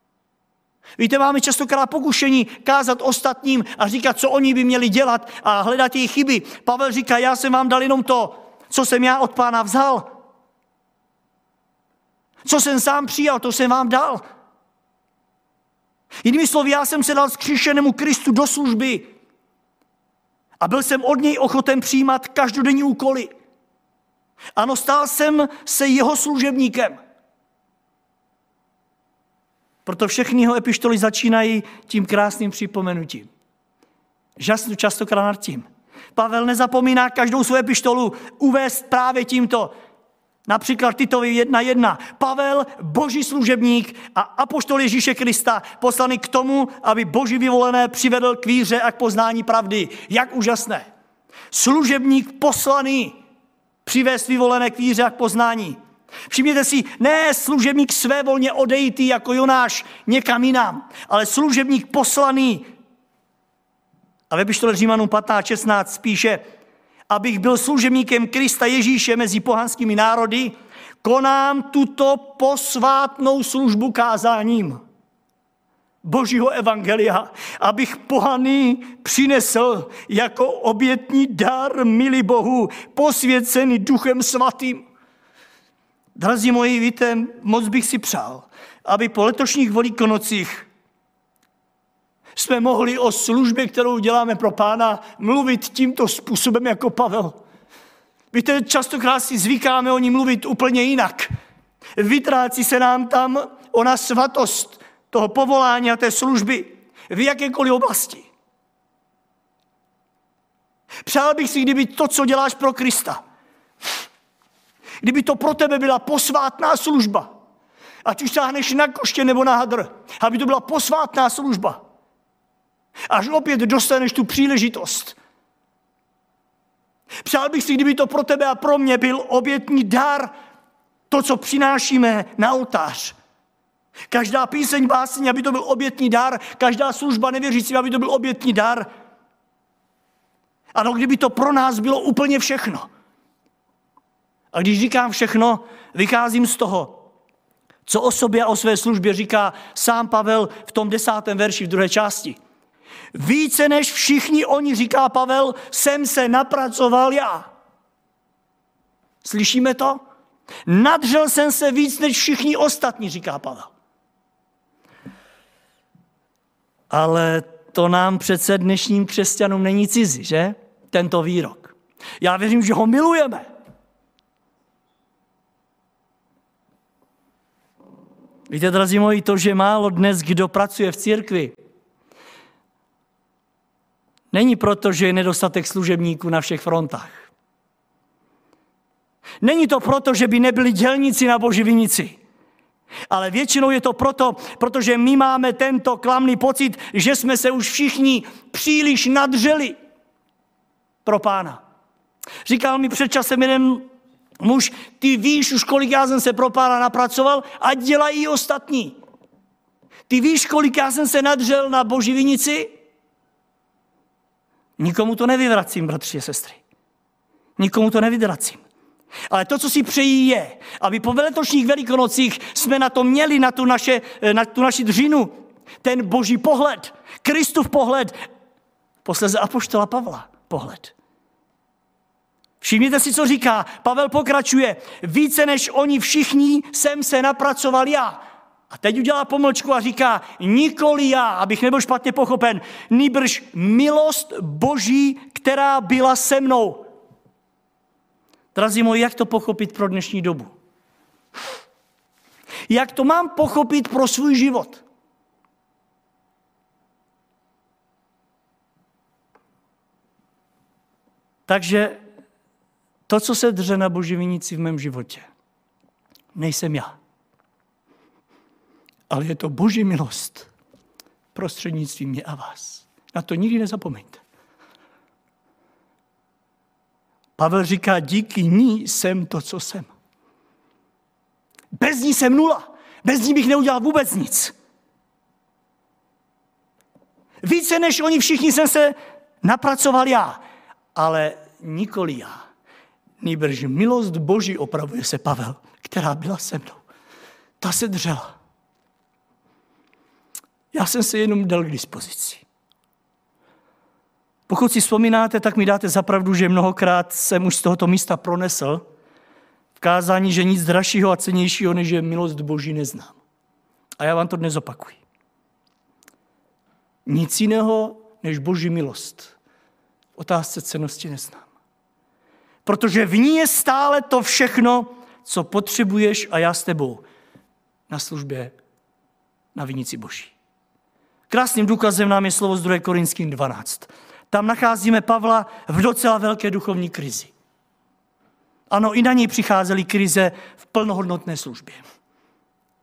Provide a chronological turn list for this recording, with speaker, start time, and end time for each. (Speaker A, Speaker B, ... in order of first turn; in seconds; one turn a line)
Speaker A: 1.0-10.1
Speaker A: 12.4-14.2
Speaker A: 16.2-19.1
Speaker A: 20.6-23.3
Speaker A: 24.6-27.0
Speaker A: 29.8-33.3
Speaker A: 34.4-39.7
Speaker A: 40.5-50.9
Speaker A: 51.5-53.2
Speaker A: 53.8-55.8
Speaker A: 56.3-62.6
Speaker A: 64.3-66.4
Speaker A: 67.1-74.8
Speaker A: 76.0-84.8
Speaker A: 86.2-90.7
Speaker A: 92.3-97.4
Speaker A: 98.3-101.3
Speaker A: 102.0-108.3
Speaker A: 111.0-113.2
Speaker A: 115.0-117.3
Speaker A: 118.0-121.8
Speaker A: 123.1-125.2
Speaker A: 127.2-130.3
Speaker A: 131.1-133.2
Speaker A: 134.1-138.9
Speaker A: 140.7-142.9
Speaker A: 144.5-147.0
Speaker A: 147.8-152.4
Speaker A: 153.1-157.5
Speaker A: 159.2-160.0
Speaker A: 160.7-163.7
Speaker A: 166.9-173.5
Speaker A: 178.5-181.5
Speaker A: 184.3-187.3
Speaker A: 189.4-192.2
Speaker A: 193.1-199.8
Speaker A: 201.0-201.6
Speaker A: 202.4-203.9
Speaker A: 204.4-209.0
Speaker A: 210.1-212.7
Speaker A: 214.8-216.6
Speaker A: 217.6-218.6
Speaker A: 219.3-228.1
Speaker A: 229.0-230.9
Speaker A: 232.6-246.8
Speaker A: 248.5-250.5
Speaker A: 252.7-254.8
Speaker A: 261.5-262.0
Speaker A: 263.1-265.3
Speaker A: 266.3-266.9
Speaker A: 269.1-270.5
Speaker A: 271.3-274.2
Speaker A: 277.4-279.9
Speaker A: 281.8-284.5
Speaker A: 287.4-290.4
Speaker A: 290.9-292.4
Speaker A: 293.2-296.8
Speaker A: 297.6-298.3
Speaker A: 300.7-302.4
Speaker A: 304.5-308.8
Speaker A: 309.8-313.1
Speaker A: 314.0-315.0
Speaker A: 317.1-319.3
Speaker A: 320.2-321.4
Speaker A: 322.6-327.0
Speaker A: 327.9-328.5
Speaker A: 329.5-330.3
Speaker A: 331.3-337.3
Speaker A: 338.7-341.8